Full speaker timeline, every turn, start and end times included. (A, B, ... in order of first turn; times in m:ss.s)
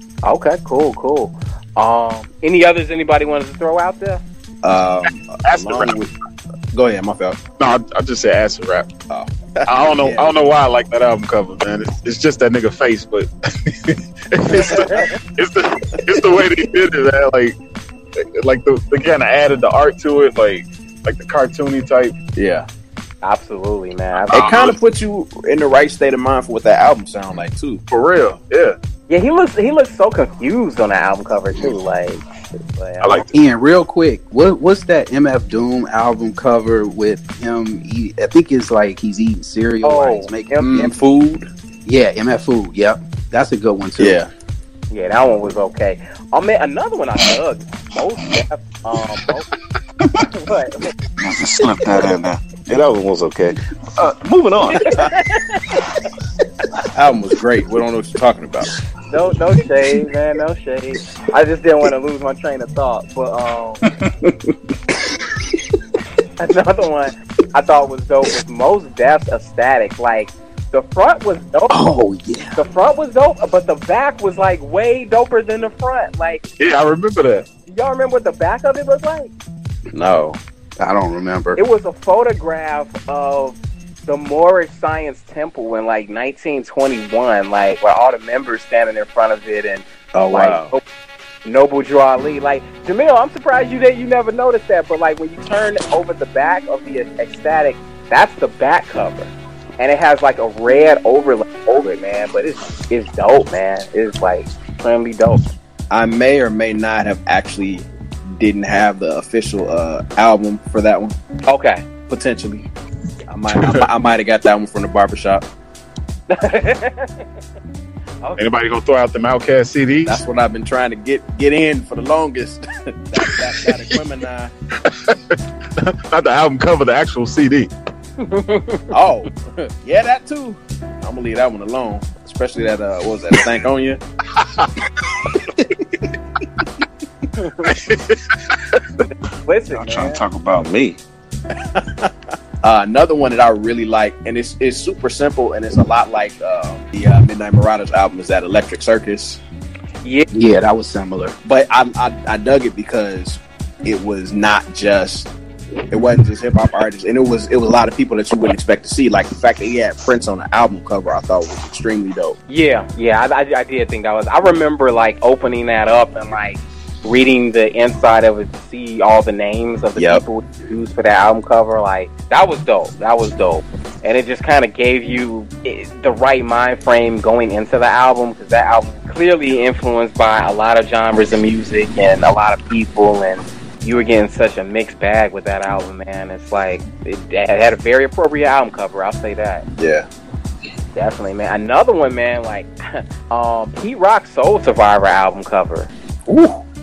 0:00.2-0:04.2 A
0:04.6-0:06.1 B
0:05.4-0:06.0 C
0:06.7-0:07.4 B
0:07.6-0:08.9 C
0:09.1-0:10.4 B
0:09.7-0:17.6 C
0:14.5-0:14.9 B
0:14.5-0:15.1 A
0:18.2-0:22.2 C
0:22.4-0:22.7 B
0:23.2-0:24.7 A
0:24.3-0:27.8 B
0:24.3-0:24.8 C
0:27.9-0:28.8 C
0:29.1-0:32.2 A
0:32.8-0:33.2 A
0:33.0-0:33.3 C
0:33.3-0:41.0 D
0:39.8-0:40.7 A
0:40.6-0:41.5 B
0:41.8-0:44.2 D
0:44.0-0:44.3 B
0:44.9-0:49.5 A
0:50.3-0:50.8 A
0:51.2-0:54.9 E
0:54.8-0:55.8 A
0:56.9-0:58.8 B
0:59.1-1:03.8 A
1:04.0-1:04.4 D
1:06.4-1:11.8 A
1:11.7-1:12.6 D
1:12.6-1:16.4 A
1:16.6-1:17.5 C
1:17.7-1:19.3 A
1:19.9-1:20.4 B
1:20.8-1:21.6 D
1:21.6-1:30.8 A
1:30.1-1:30.7 B
1:31.4-1:45.5 A
1:45.9-1:51.2 B
1:51.5-1:51.9 A
1:52.1-1:52.7 B
1:53.3-1:55.4 B
1:53.6-1:53.9 C
1:56.3-1:57.2 A
1:58.2-1:58.5 A
1:58.4-2:00.2 C
2:00.0-2:04.5 B
2:03.6-2:04.0 C
2:04.8-2:07.7 C
2:08.2-2:08.9 A
2:08.9-2:14.0 B
2:14.4-2:14.7 C
2:15.5-2:16.0 D
2:17.6-2:18.4 C
2:19.4-2:20.2 A
2:19.7-2:21.0 E
2:21.8-2:22.1 B
2:22.6-2:29.4 B
2:30.3-2:31.4 D
2:31.4-2:35.3 B
2:35.9-2:42.4 B
2:42.5-3:09.6 A
2:50.0-2:50.2 B
3:09.8-3:10.1 B
3:11.0-3:15.9 A
3:16.3-3:16.5 D